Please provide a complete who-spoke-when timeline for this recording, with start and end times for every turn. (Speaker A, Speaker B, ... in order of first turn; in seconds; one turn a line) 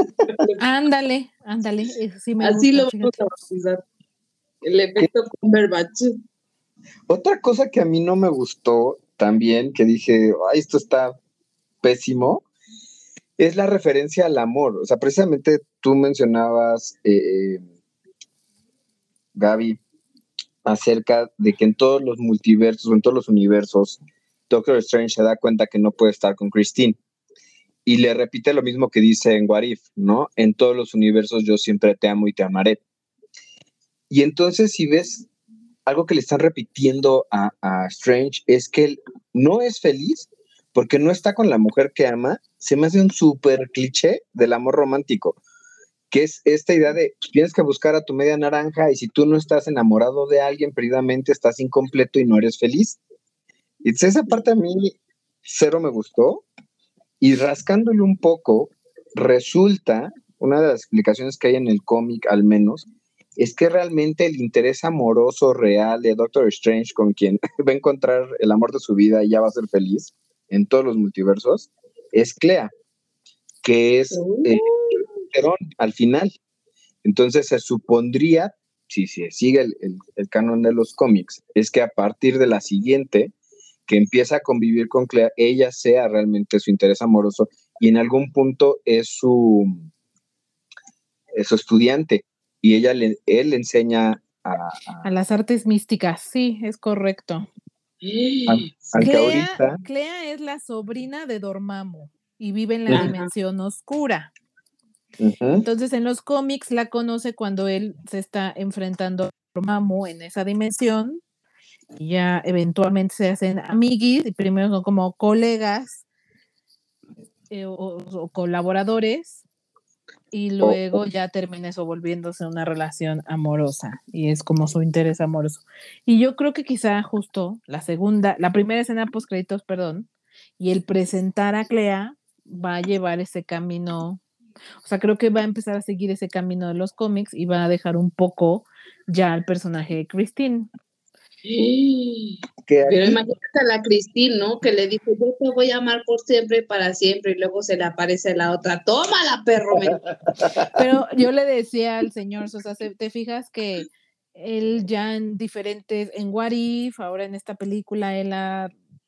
Speaker A: 0.3-0.6
Speaker B: 0.6-3.3
Speaker A: 2.4-3.8
Speaker A: 4.6-6.2
Speaker C: 7.1-11.2
Speaker C: 11.8-12.4
Speaker C: 13.4-17.6
Speaker C: 19.3-19.8
Speaker C: 20.6-27.0
Speaker C: 27.9-32.8
Speaker C: 34.1-35.3
Speaker C: 35.9-45.4
Speaker C: 46.1-53.0
Speaker C: 53.8-56.5
Speaker C: 57.2-72.7
Speaker C: 73.6-74.7
Speaker A: 74.1-75.1
Speaker C: 75.3-76.4
Speaker C: 77.0-83.3
Speaker C: 83.9-89.9
Speaker C: 91.3-95.1
Speaker B: 95.0-97.5
Speaker A: 98.0-99.3
Speaker C: 98.5-99.8
Speaker B: 99.0-104.3
Speaker A: 102.9-103.3
Speaker C: 105.2-105.7
Speaker B: 105.5-111.2
Speaker B: 112.0-116.0
Speaker B: 117.5-119.4
Speaker B: 120.3-130.1
Speaker C: 120.6-121.0
Speaker B: 130.6-134.2
Speaker B: 134.8-140.7
Speaker A: 141.4-150.0
Speaker C: 142.7-143.2
Speaker C: 149.8-150.7
Speaker B: 150.8-158.7